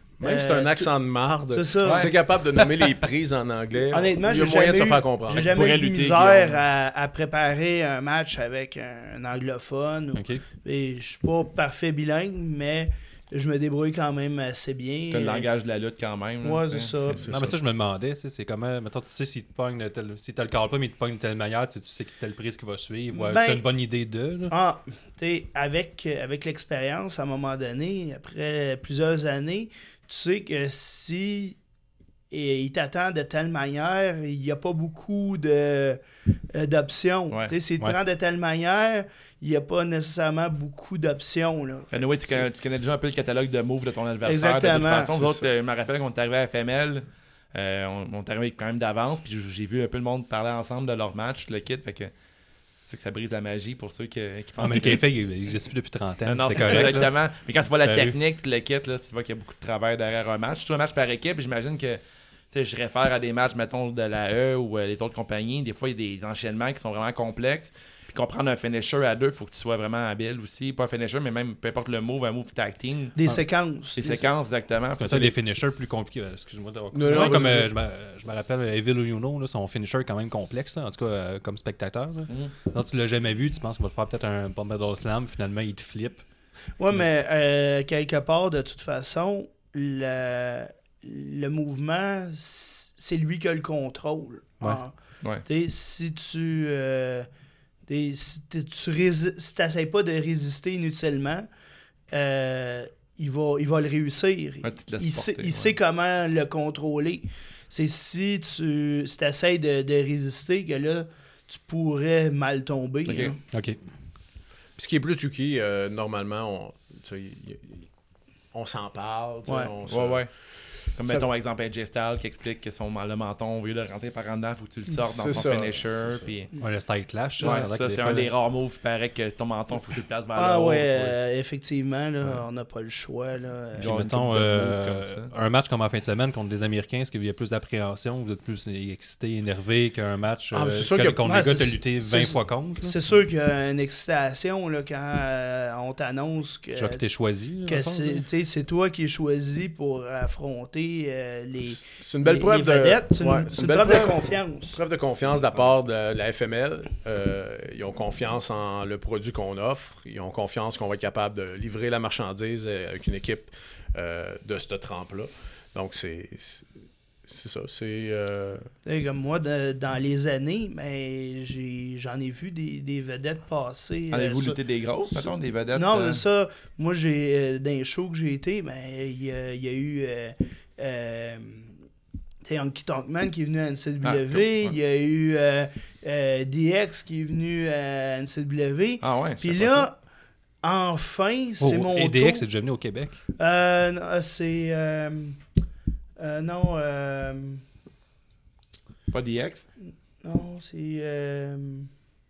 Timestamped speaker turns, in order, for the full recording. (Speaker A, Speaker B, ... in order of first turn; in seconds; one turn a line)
Speaker A: 0.2-5.8
Speaker B: 0.2-0.9
Speaker B: 1.5-2.1
Speaker C: 1.8-2.9
Speaker B: 3.9-15.5
Speaker C: 5.3-6.6
Speaker D: 10.1-10.4
Speaker C: 15.1-17.2
Speaker B: 16.4-17.3
Speaker A: 17.1-17.6
Speaker D: 17.3-24.5
Speaker B: 23.1-23.6
Speaker B: 24.5-31.6
Speaker B: 32.3-36.0
Speaker B: 36.5-42.5
Speaker C: 41.9-52.1
Speaker B: 44.2-45.2
Speaker A: 45.2-45.5
Speaker C: 52.9-55.0
Speaker D: 54.6-57.1
Speaker C: 56.3-73.2
Speaker D: 57.7-58.2
Speaker B: 73.2-74.3
Speaker C: 74.0-75.3
Speaker D: 75.0-86.2
Speaker A: 76.9-77.7
Speaker B: 77.1-77.4
Speaker B: 86.8-94.9
Speaker B: 95.5-97.3
Speaker B: 97.9-101.5
Speaker B: 102.1-113.4
Speaker C: 104.6-105.8
Speaker C: 113.1-113.3
Speaker D: 113.5-113.8
Speaker A: 114.8-117.9
Speaker A: 118.5-120.3
Speaker B: 119.5-119.7
Speaker C: 119.9-120.3
Speaker C: 121.0-126.5
Speaker A: 125.0-126.3
Speaker D: 126.6-128.3
Speaker C: 127.4-131.2
Speaker B: 130.4-133.9
Speaker C: 133.8-135.3
Speaker D: 133.8-143.0
Speaker A: 140.5-141.2
Speaker B: 141.2-147.1
Speaker D: 146.7-148.2
Speaker B: 147.7-154.8
Speaker A: 151.6-166.7
Speaker A: 167.3-168.7
Speaker B: 168.9-174.6
Speaker C: 174.1-176.2
Speaker B: 175.1-181.7
Speaker B: 182.4-190.0
Speaker C: 184.0-184.8
Speaker C: 189.0-189.9
Speaker B: 190.6-192.5
Speaker D: 191.6-193.2
Speaker B: 193.4-195.4
Speaker B: 196.2-197.6
Speaker C: 199.1-199.7
Speaker B: 200.2-201.9